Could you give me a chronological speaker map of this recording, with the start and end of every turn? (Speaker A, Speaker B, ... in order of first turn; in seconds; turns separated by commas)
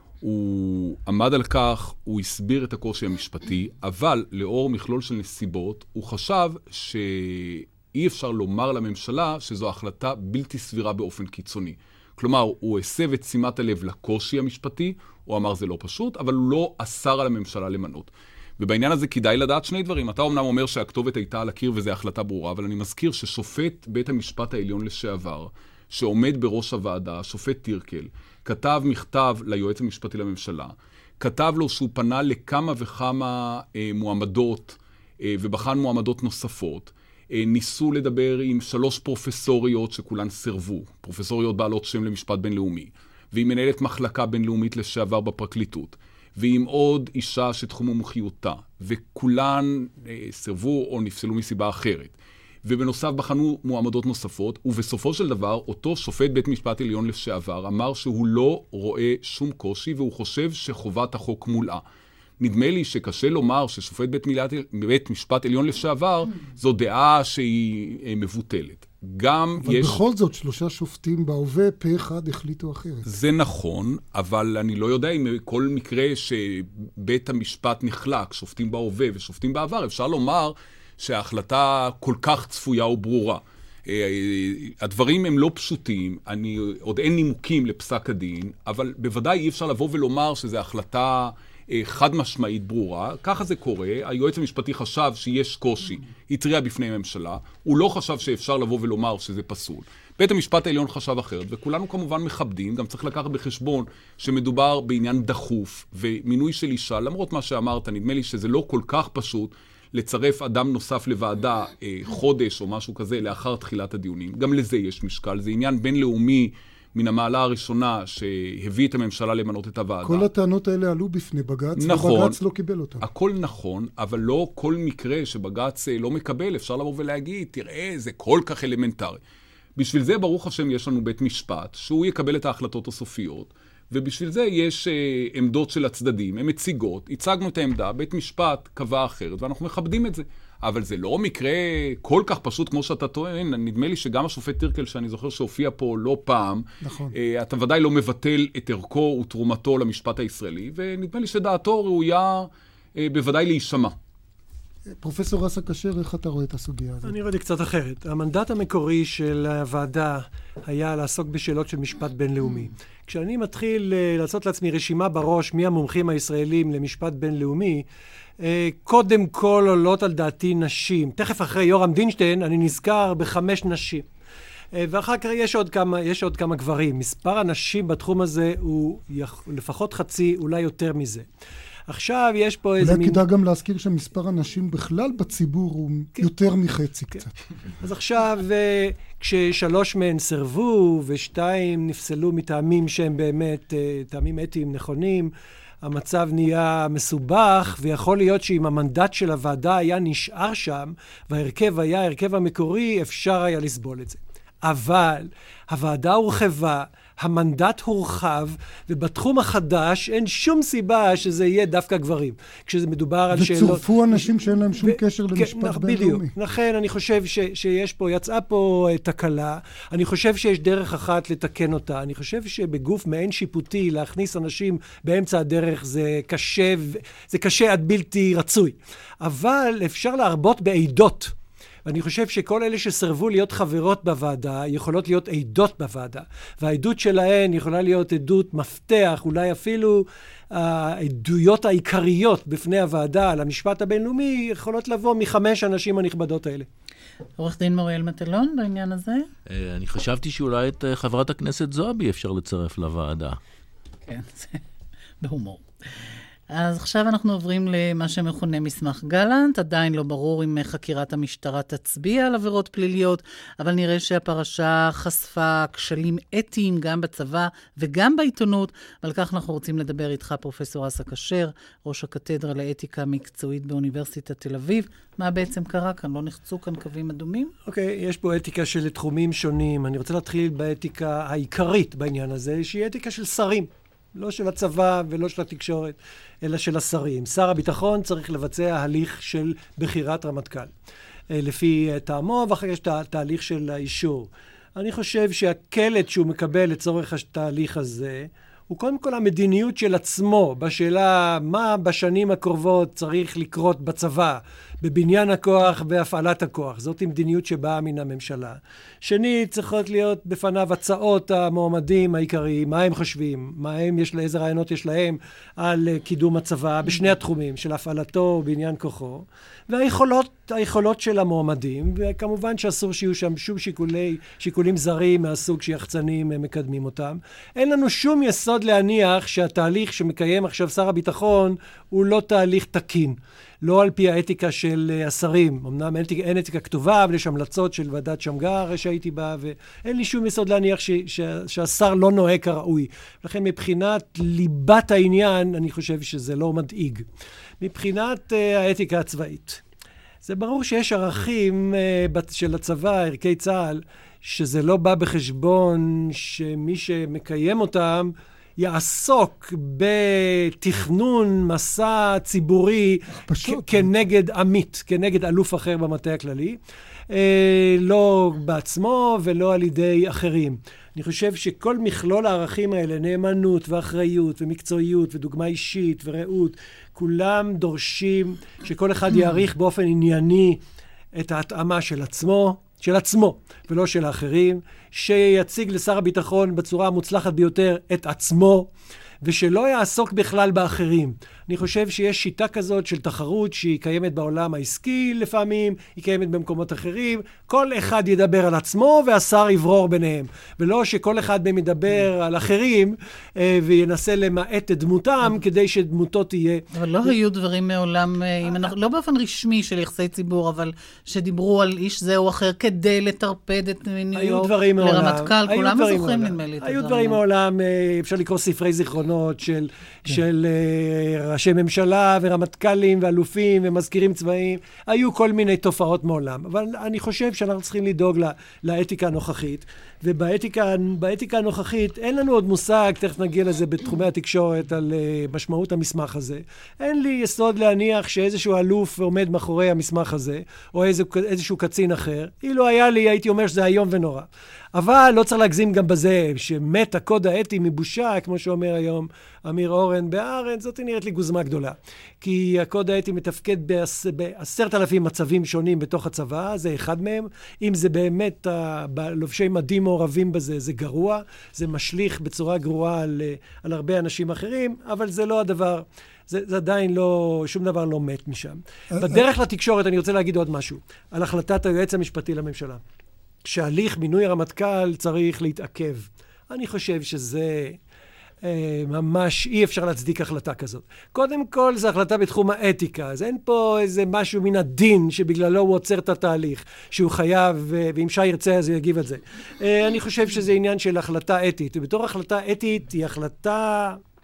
Speaker A: 0.2-61.8, Speaker A: 62.4-70.0, Speaker B: 69.6-73.1, Speaker A: 73.0-120.3, Speaker B: 120.0-123.0, Speaker A: 121.8-122.4, Speaker A: 123.0-129.2, Speaker A: 129.8-153.9, Speaker B: 146.8-147.1, Speaker B: 154.9-157.1, Speaker C: 157.0-167.8, Speaker C: 168.4-174.1, Speaker C: 174.7-181.2, Speaker C: 181.9-183.2, Speaker B: 182.8-187.3, Speaker C: 187.8-195.3, Speaker C: 195.8-214.3, Speaker B: 213.3-216.3, Speaker C: 214.8-231.3, Speaker C: 231.8-246.7, Speaker D: 247.4-249.3, Speaker E: 249.5-253.4, Speaker D: 254.1-254.6, Speaker D: 255.2-255.6, Speaker D: 256.5-277.5, Speaker C: 277.6-290.7, Speaker C: 291.3-347.1, Speaker C: 347.6-349.6, Speaker C: 350.2-366.6, Speaker B: 363.3-363.9, Speaker C: 367.1-380.6, Speaker C: 381.1-388.7, Speaker C: 389.2-407.1, Speaker D: 406.7-417.2, Speaker C: 414.1-472.8, Speaker B: 468.9-469.2, Speaker C: 473.4-477.8, Speaker C: 478.4-494.0